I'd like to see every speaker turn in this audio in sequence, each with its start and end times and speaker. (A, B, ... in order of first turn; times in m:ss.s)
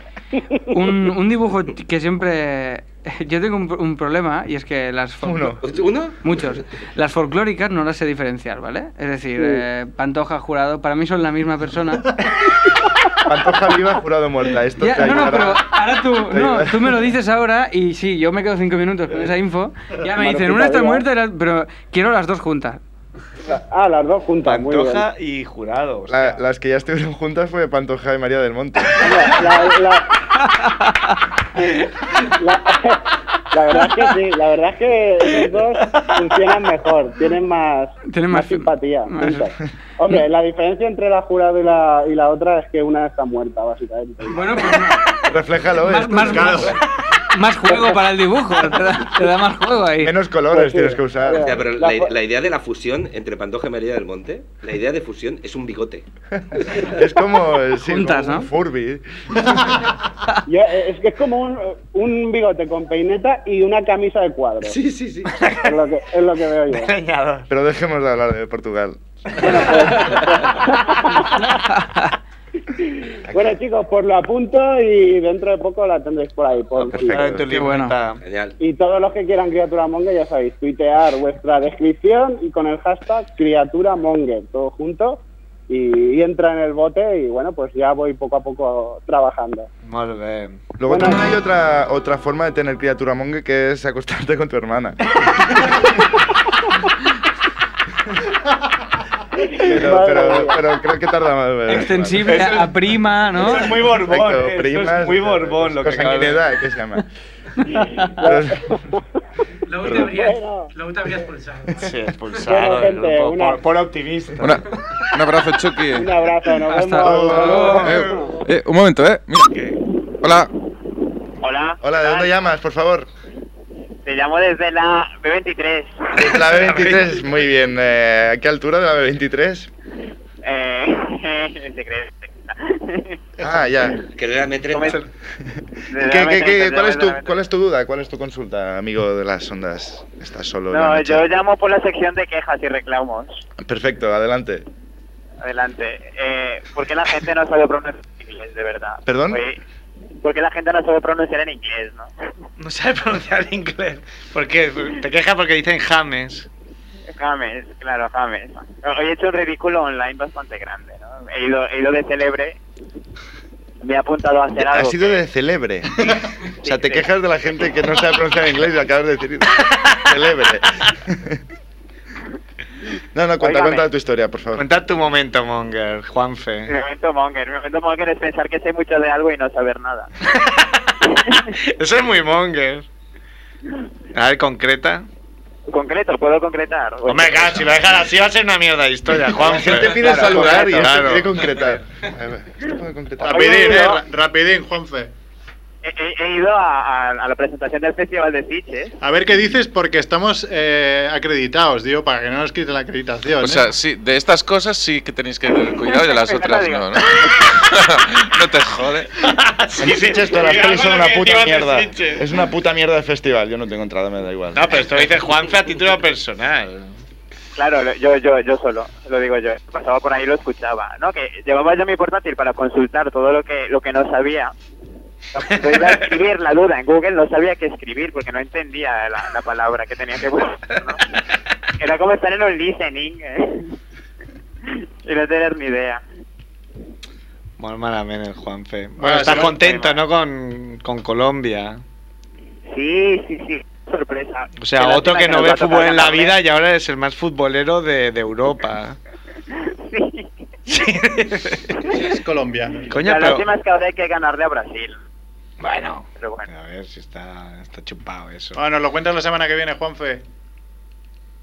0:00.7-0:05.6 A
0:05.2-0:05.6 B
0:05.6-0:06.2 C
0:06.2-0:12.2 A
0:09.4-0:09.6 D
0:13.2-0:15.7 B
0:14.8-0:22.8 A
0:16.3-0:16.9 B
0:20.2-0:21.0 D
0:23.4-0:25.1 D
0:24.4-0:26.4 E
0:26.1-0:29.6 B
0:29.0-0:30.1 D
0:30.4-0:31.2 A
0:32.2-0:44.9 D
0:35.5-0:36.1 E
0:38.1-0:39.5 A
0:44.3-0:50.2 A
0:45.2-0:46.8 B
0:46.3-0:46.7 F
0:47.7-0:48.0 D
0:50.0-0:51.6 B
0:50.5-0:52.1 D
0:51.3-0:56.0 C
0:56.4-0:59.9 B
0:57.8-0:58.5 A
1:00.5-1:04.8 D
1:04.6-1:05.4 B
1:05.2-1:05.8 E
1:05.6-1:06.9 D
1:06.7-1:07.5 E
1:07.5-1:10.1 B
1:09.4-1:11.6 D
1:09.4-1:11.5 E
1:11.5-1:12.1 A
1:12.8-1:17.4 D
1:13.3-1:13.6 B
1:16.8-1:17.5 B
1:16.9-1:18.2 E
1:17.5-1:18.0 A
1:18.2-1:18.6 C
1:18.6-1:29.7 D
1:29.8-1:30.6 E
1:30.8-1:36.2 B
1:30.8-1:31.3 D
1:39.5-1:42.6 B
1:39.6-1:40.6 D
1:41.7-1:43.8 A
1:42.2-1:42.8 E
1:43.3-1:46.5 E
1:43.7-1:47.1 B
1:47.7-1:48.8 B
1:47.8-1:48.1 A
1:48.0-1:49.0 D
1:49.7-1:52.0 G
1:49.8-1:50.2 B
1:50.0-1:50.7 D
1:51.8-1:54.8 E
1:52.4-1:53.7 D
1:54.4-1:56.1 H
1:55.9-1:58.3 D
1:56.7-1:57.9 A
1:57.0-1:58.3 E
1:57.0-1:58.0 B
1:57.7-1:59.6 H
2:00.2-2:00.5 H
2:01.4-2:02.3 I
2:01.8-2:03.1 B
2:04.0-2:06.1 I
2:06.2-2:09.7 B
2:06.2-2:07.3 E
2:10.4-2:13.2 I
2:13.4-2:14.0 B
2:14.2-2:15.0 C
2:14.7-2:15.0 I
2:15.9-2:17.4 I
2:16.0-2:21.3 B
2:20.7-2:23.4 I
2:23.6-2:24.7 B
2:25.4-2:29.6 I
2:29.0-2:29.4 B
2:30.2-2:32.1 I
2:32.6-2:36.5 E
2:37.1-2:42.6 I
2:43.8-2:45.2 I
2:44.6-2:51.4 B
2:46.6-2:47.1 I
2:53.1-2:54.7 B
2:53.4-2:53.9 I
2:54.6-2:56.7 E
2:56.7-3:00.1 I
3:00.2-3:00.9 E
3:01.1-3:01.5 I
3:01.5-3:02.9 E
3:04.1-3:05.1 E
3:05.7-3:07.7 I
3:07.1-3:11.8 E
3:09.4-3:13.9 B
3:13.2-3:15.1 F
3:13.3-3:14.0 I
3:15.8-3:19.0 I
3:19.0-3:23.8 F
3:23.4-3:29.1 H
3:26.0-3:27.0 I
3:29.2-3:32.3 E
3:29.8-3:34.9 B
3:34.5-3:37.0 E
3:37.6-3:44.5 I
3:45.3-3:51.0 I
3:51.8-3:53.7 I
3:54.7-3:56.0 I
3:57.6-4:01.8 E
3:59.0-3:59.7 F
3:59.1-4:00.0 I
4:02.7-4:06.4 I
4:04.6-4:09.0 E
4:09.7-4:10.3 I
4:10.7-4:12.0 E
4:11.9-4:13.0 F
4:12.9-4:13.5 E
4:13.0-4:15.0 I
4:15.6-4:18.6 E
4:16.2-4:16.5 I
4:18.6-4:20.2 F